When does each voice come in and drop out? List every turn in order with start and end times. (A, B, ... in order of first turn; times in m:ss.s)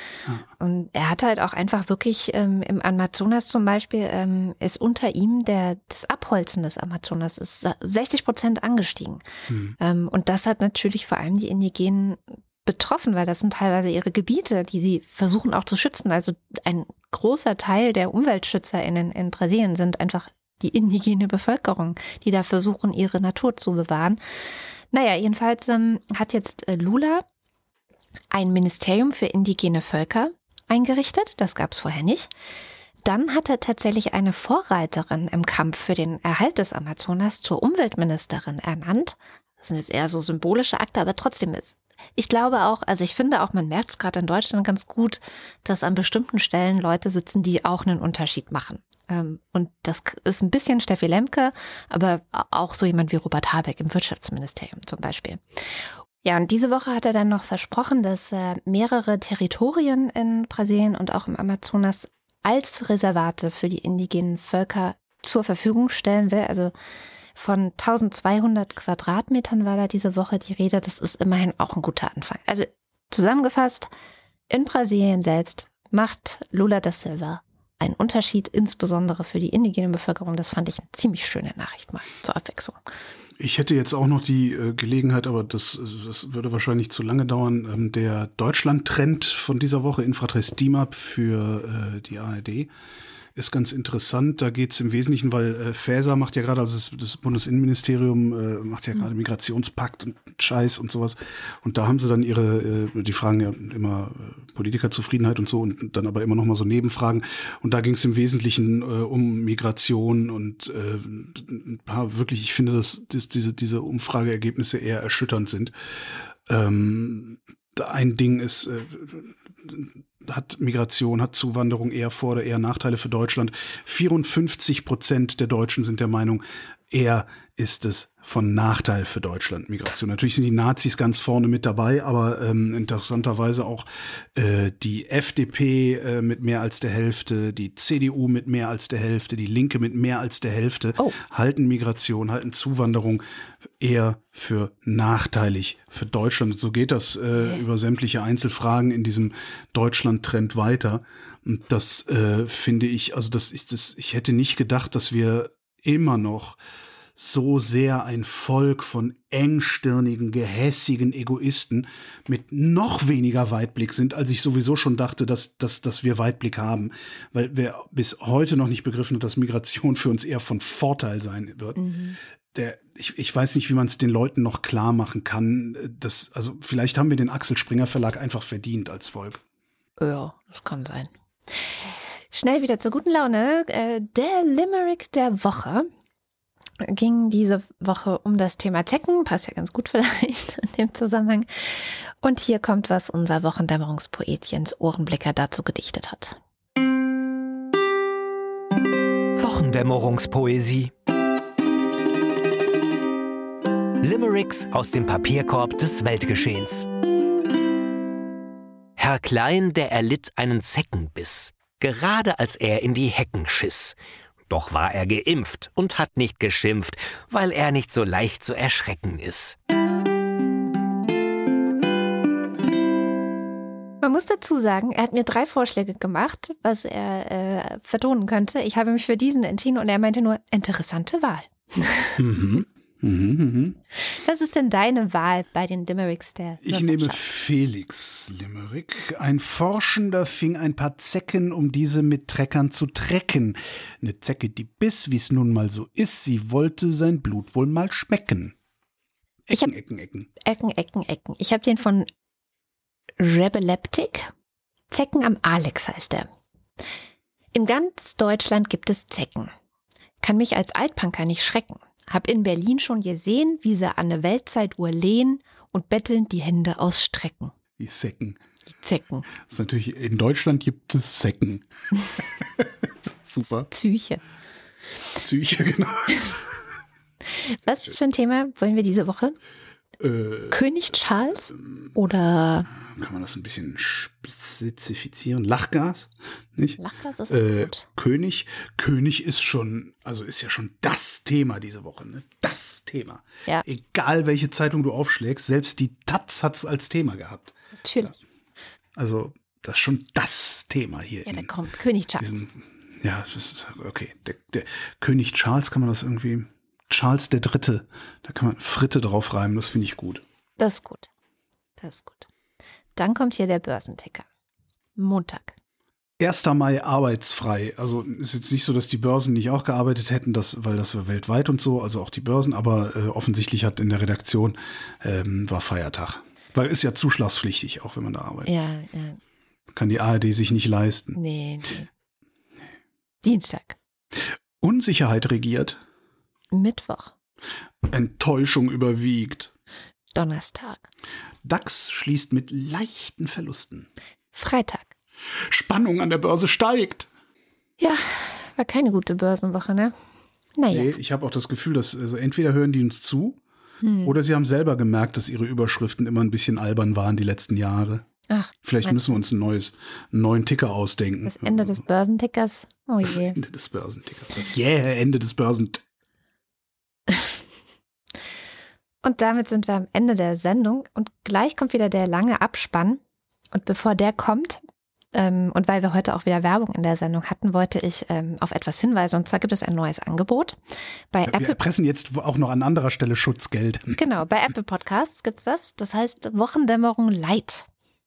0:00.6-0:09.2 A
0:09.5-0:09.8 B
0:09.8-0:24.2 A
0:24.9-0:27.2 A
0:28.3-0:32.3 A
0:33.0-0:55.6 A
0:56.2-1:06.7 A
1:07.3-1:13.9 A
1:14.5-1:22.8 A
1:23.4-1:32.7 B
1:33.4-1:55.7 B
1:56.5-2:23.2 B
2:23.8-2:36.6 B
2:37.2-2:51.8 B
2:51.8-2:52.2 A
2:52.5-2:59.4 B
3:00.0-3:01.1 A
3:02.3-3:05.9 A
3:06.8-3:16.4 A
3:19.4-3:20.9 C
3:24.0-3:26.9 C
3:29.0-3:34.0 C
3:34.5-3:39.6 C
3:44.0-3:52.2 A
3:52.2-3:53.8 B
3:54.0-3:57.2 A
3:56.6-4:08.6 B
4:09.5-4:10.3 B
4:10.4-4:12.1 A
4:13.2-4:14.3 A
4:14.9-4:16.3 A
4:17.5-4:19.5 A
4:20.2-4:27.5 A
4:27.8-4:28.4 B
4:28.7-4:29.3 A
4:29.4-4:31.6 B
4:33.3-4:33.7 B
4:33.7-4:34.2 A
4:35.2-4:36.4 B
4:37.4-4:39.4 A
4:40.0-4:40.6 B
4:40.5-4:42.7 A
4:42.8-4:57.5 B
4:46.8-4:47.8 A
4:57.8-4:58.2 A
4:59.0-5:01.5 B
5:01.2-5:02.3 A
5:02.2-5:10.2 B
5:10.6-5:11.1 A
5:11.8-5:12.3 A
5:13.0-5:14.3 A
5:15.0-5:15.6 A
5:16.2-5:28.5 B
5:28.4-5:29.2 A
5:29.7-5:31.2 B
5:31.1-5:31.9 A
5:33.2-5:33.8 A
5:34.6-5:35.8 B
5:36.5-5:37.1 A
5:37.8-5:39.5 B
5:40.1-5:40.9 A
5:41.4-5:43.9 B
5:44.4-5:44.9 A
5:45.4-5:47.1 B
5:47.8-5:50.0 A
5:50.6-5:50.9 A
5:50.7-5:53.4 B
5:53.8-5:54.1 A
5:54.0-5:58.0 B
5:58.3-5:59.1 A
5:58.6-6:01.8 B
6:01.3-6:03.4 A
6:03.0-6:05.8 B
6:07.1-6:07.4 A
6:09.0-6:13.0 A
6:13.5-6:14.6 A
6:15.1-6:20.6 A
6:21.1-6:21.6 A
6:21.3-6:24.0 B
6:24.0-6:27.7 A